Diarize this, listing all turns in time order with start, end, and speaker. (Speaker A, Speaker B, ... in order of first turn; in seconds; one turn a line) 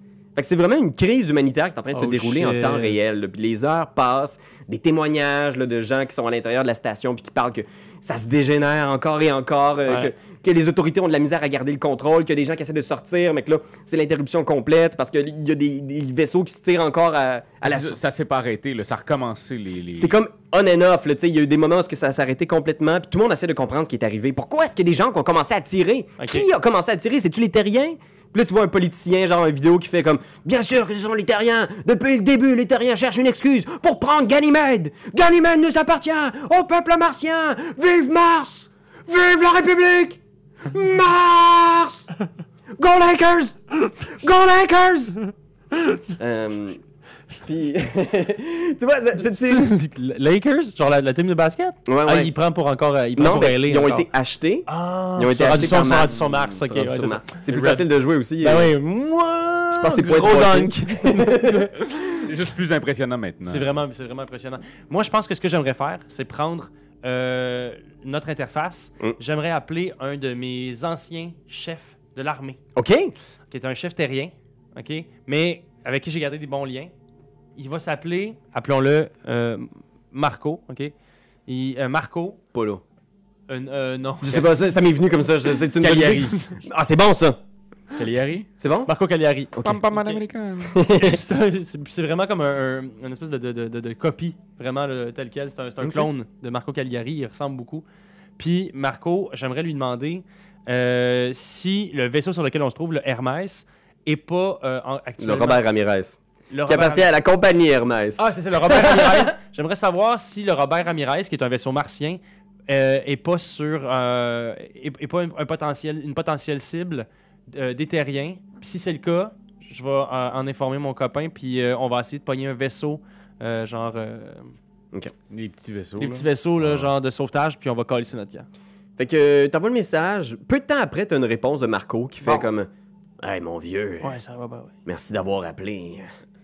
Speaker A: 0.3-18.0
Speaker B: 1.9-3.0
Speaker C: 17.6-20.2
Speaker A: 19.7-42.1
Speaker B: 26.2-26.4
Speaker A: 42.8-45.2
Speaker A: 46.1-46.8
Speaker A: 47.4-49.7
Speaker B: 49.2-54.1
Speaker A: 51.9-52.3
Speaker A: 53.1-58.7
Speaker B: 54.7-57.9
Speaker B: 58.4-62.3
Speaker A: 59.7-61.7
Speaker C: 62.2-63.8
Speaker B: 63.5-72.6
Speaker A: 72.8-73.1
Speaker B: 73.5-76.9
Speaker B: 77.5-80.9
Speaker B: 81.5-82.4
Speaker A: 82.5-82.8
Speaker B: 83.5-84.5
Speaker A: 84.2-87.4
Speaker B: 85.7-86.6
Speaker C: 87.9-88.5
Speaker A: 88.6-88.9
Speaker B: 88.9-90.2
Speaker C: 89.6-90.8
Speaker A: 90.7-91.2
Speaker B: 90.9-97.8
Speaker A: 95.8-96.1
Speaker B: 98.4-105.6
Speaker A: 105.2-109.3
Speaker B: 106.5-107.1
Speaker B: 108.2-124.5
Speaker C: 125.3-126.9
Speaker B: 126.0-128.5
Speaker A: 129.0-132.7
Speaker A: 133.2-134.2
Speaker B: 134.0-134.7
Speaker A: 134.8-136.1